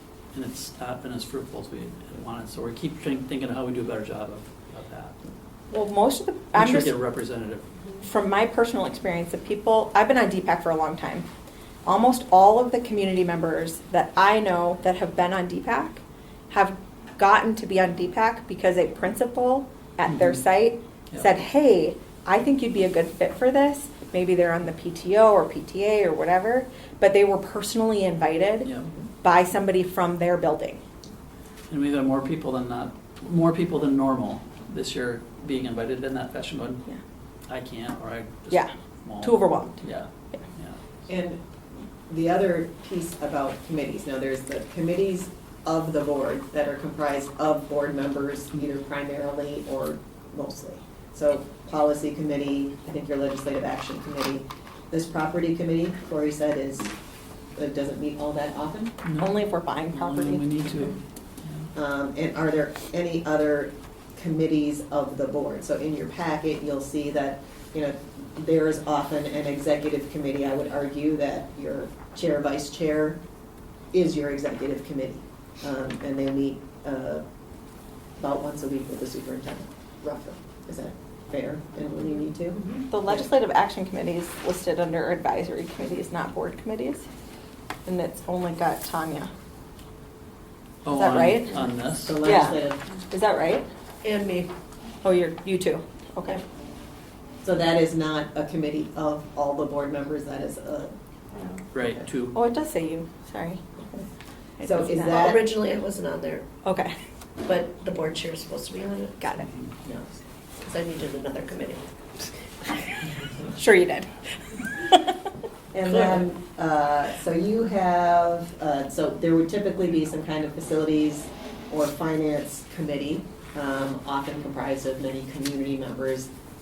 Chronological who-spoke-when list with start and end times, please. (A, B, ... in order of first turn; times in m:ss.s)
0:00.3-0:05.2 A
0:05.7-0:07.0 B
0:06.5-0:07.6 A
0:08.0-0:11.2 B
0:11.8-0:28.7 B
0:20.1-0:20.4 A
0:29.2-0:30.8 B
0:31.7-0:36.9 A
0:37.5-0:40.8 A
0:38.5-0:39.8 B
0:41.1-0:41.4 C
0:42.1-0:56.9 C
0:57.5-0:59.0 C
0:59.0-0:59.3 A
0:59.2-1:00.5 B
0:59.9-1:01.7 A
1:01.7-1:13.2 C
1:13.9-1:17.2 C
1:18.2-1:23.3 C
1:22.9-1:27.0 B
1:27.8-1:29.3 B
1:30.8-1:32.3 A
1:30.9-1:33.7 B
1:32.0-1:32.8 C
1:34.0-1:34.5 D
1:35.0-1:36.4 B
1:37.4-1:41.0 C
1:41.7-1:42.4 A
1:42.3-1:43.6 B
1:44.6-1:45.5 B
1:44.6-1:45.4 C
1:45.0-1:46.4 D
1:46.6-1:46.9 B
1:47.4-1:49.4 D
1:49.2-1:49.5 B
1:49.8-1:50.1 C
1:50.6-1:52.9 D
1:53.6-1:55.3 B
1:55.7-2:06.3 C